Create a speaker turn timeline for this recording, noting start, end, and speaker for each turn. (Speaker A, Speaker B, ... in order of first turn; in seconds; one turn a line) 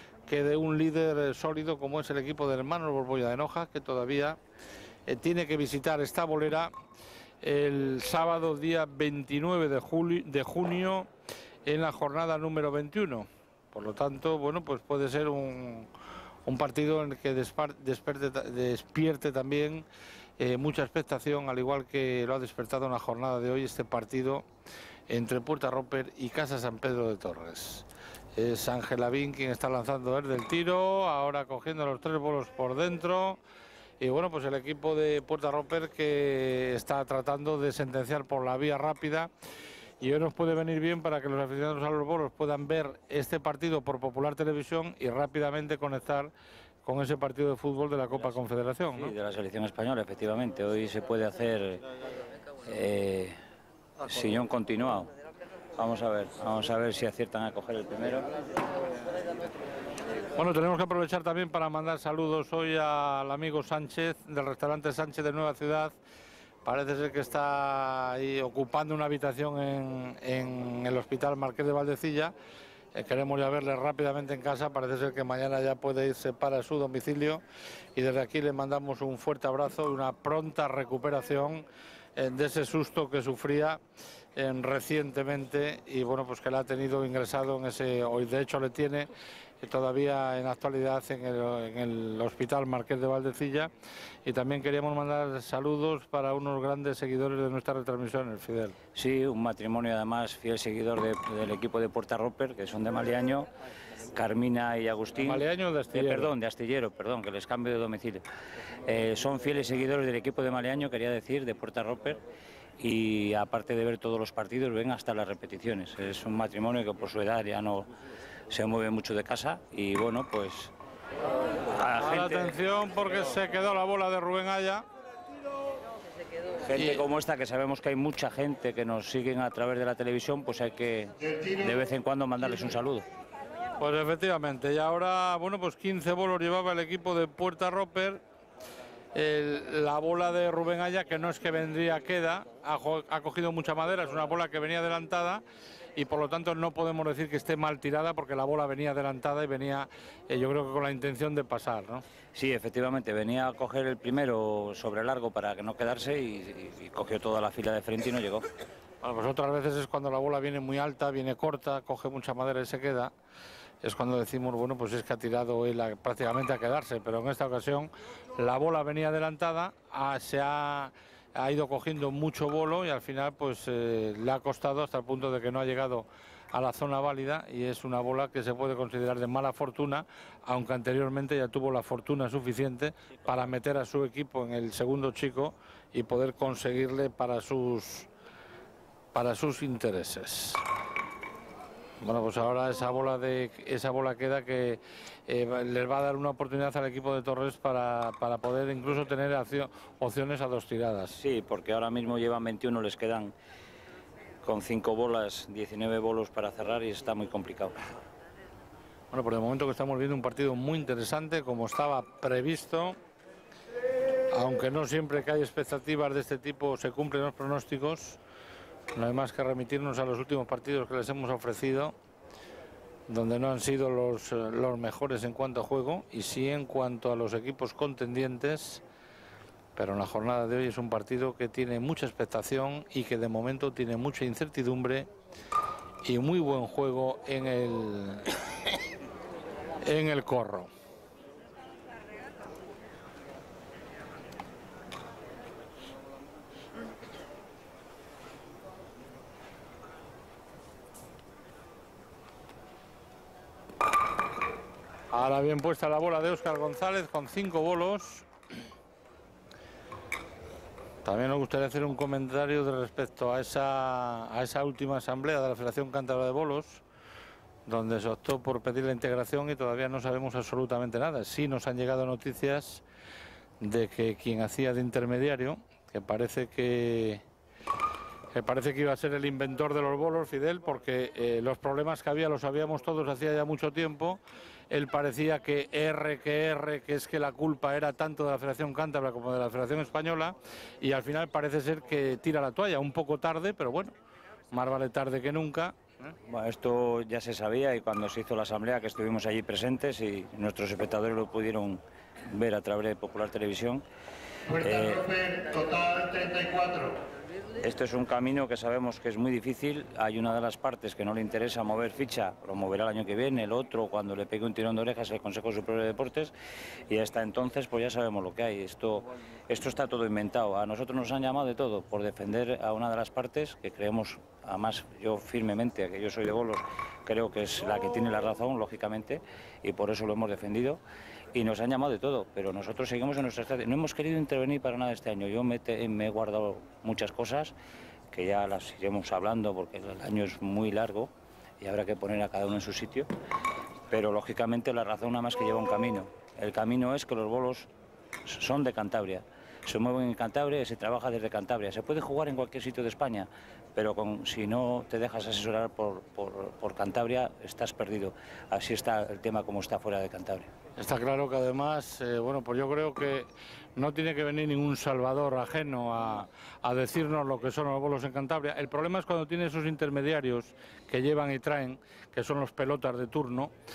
Speaker A: 0.3-4.4
Speaker A: 5.1-6.7
Speaker A: 7.4-11.1
Speaker A: 11.7-15.9
Speaker A: 16.4-19.8
Speaker A: 20.4-24.4
Speaker A: 25.1-33.4
Speaker A: 34.0-39.3
Speaker A: 40.0-46.3
Speaker A: 46.8-49.1
Speaker B: 48.9-51.8
Speaker B: 52.6-53.4
Speaker B: 54.0-55.1
Speaker B: 55.8-58.3
Speaker A: 60.3-65.9
Speaker A: 66.6-72.3
Speaker A: 72.9-77.4
Speaker A: 78.0-81.6
Speaker A: 82.2-83.8
Speaker A: 84.3-89.1
Speaker A: 89.6-93.7
Speaker A: 94.2-98.8
Speaker B: 98.9-103.5
Speaker B: 104.1-108.2
Speaker A: 105.2-106.3
Speaker B: 108.8-112.2
Speaker B: 112.8-117.9
Speaker B: 118.5-120.7
Speaker B: 121.6-122.6
Speaker A: 121.8-124.8
Speaker B: 126.6-133.1
Speaker A: 126.8-127.0
Speaker C: 131.2-131.8
Speaker A: 133.8-138.2
Speaker A: 139.1-145.4
Speaker A: 145.9-152.0
Speaker B: 152.3-158.4
Speaker A: 159.0-163.1
Speaker A: 163.8-188.1
Speaker A: 189.1-190.6
Speaker A: 192.0-201.2
Speaker B: 201.2-203.3
Speaker B: 204.4-207.8
Speaker A: 209.1-213.0
Speaker A: 214.3-218.2
Speaker A: 218.9-221.9
Speaker A: 223.1-228.8
Speaker A: 229.7-235.1
Speaker A: 236.0-238.3
Speaker A: 239.8-240.7
Speaker A: 255.1-258.3
Speaker A: 261.0-266.8
Speaker A: 267.6-272.8
Speaker A: 273.6-277.2
Speaker A: 278.3-293.9
Speaker A: 294.5-296.1
Speaker B: 296.2-303.8
Speaker C: 304.5-307.0
Speaker B: 304.6-305.1
Speaker B: 307.6-316.3
Speaker B: 316.9-330.8
Speaker B: 331.3-337.5
Speaker B: 338.1-343.1
Speaker B: 343.9-347.7
Speaker B: 348.2-360.5
Speaker A: 360.8-373.5